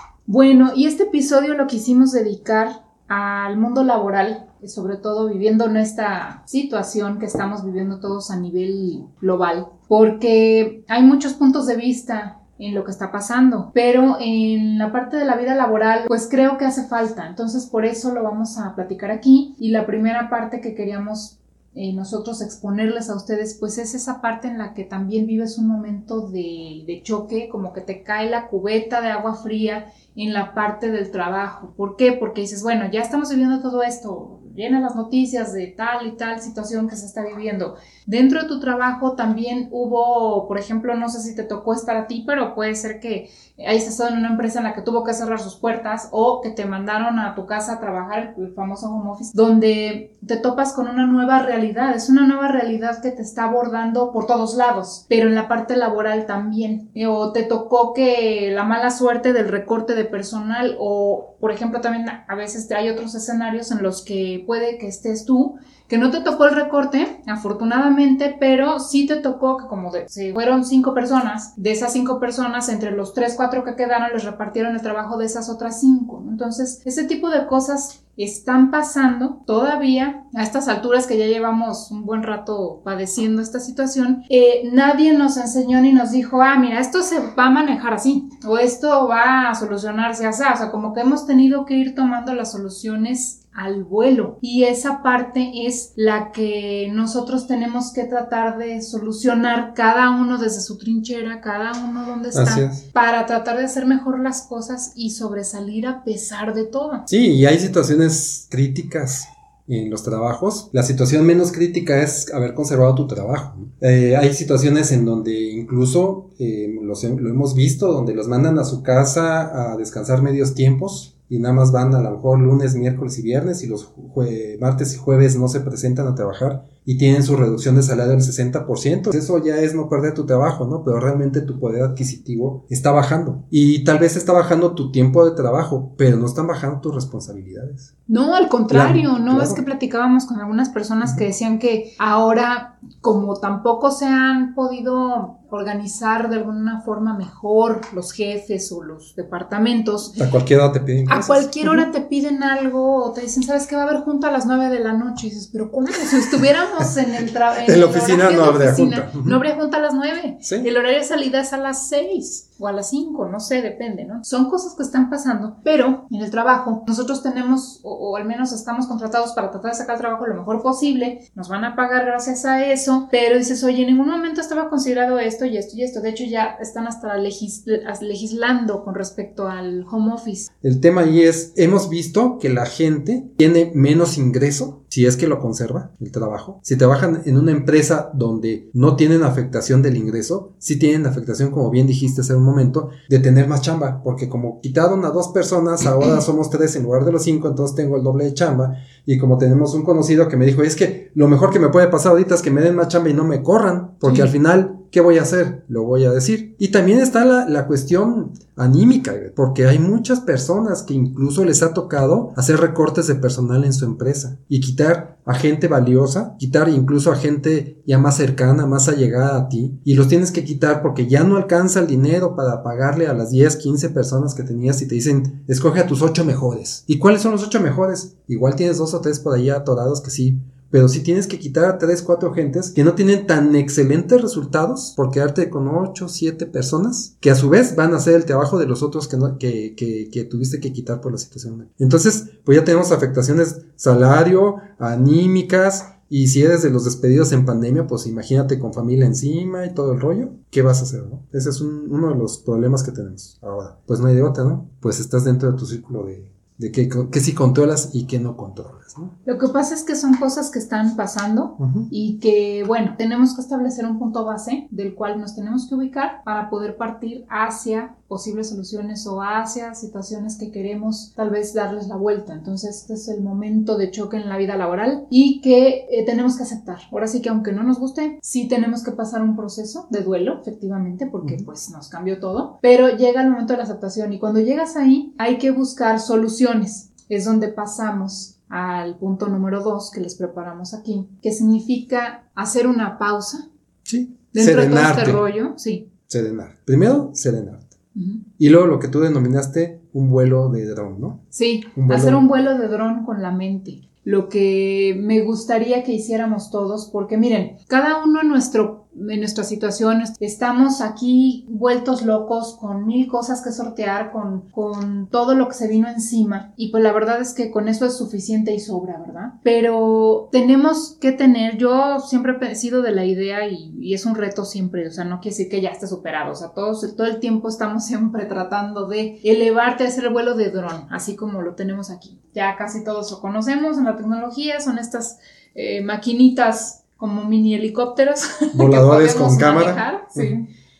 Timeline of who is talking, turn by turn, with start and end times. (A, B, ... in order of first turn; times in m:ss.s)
0:00.3-1:47.1 A
1:42.3-1:42.8 B
1:47.1-2:17.9 B
2:18.1-2:30.2 A
2:18.7-2:19.6 B
2:30.2-2:31.8 B
2:31.1-3:00.5 A
2:36.1-2:36.8 B
2:37.6-2:39.4 B
2:40.4-2:40.7 B
3:00.6-4:19.1 B
3:24.0-3:24.3 A
4:19.2-4:53.4 A
4:21.6-4:21.9 B
4:53.8-4:55.2 B
4:54.3-4:55.9 A
4:56.1-4:57.7 B
4:57.9-4:58.2 A
4:58.4-5:01.2 B
5:01.3-5:40.4 A
5:01.7-5:02.2 B
5:38.5-5:40.3 B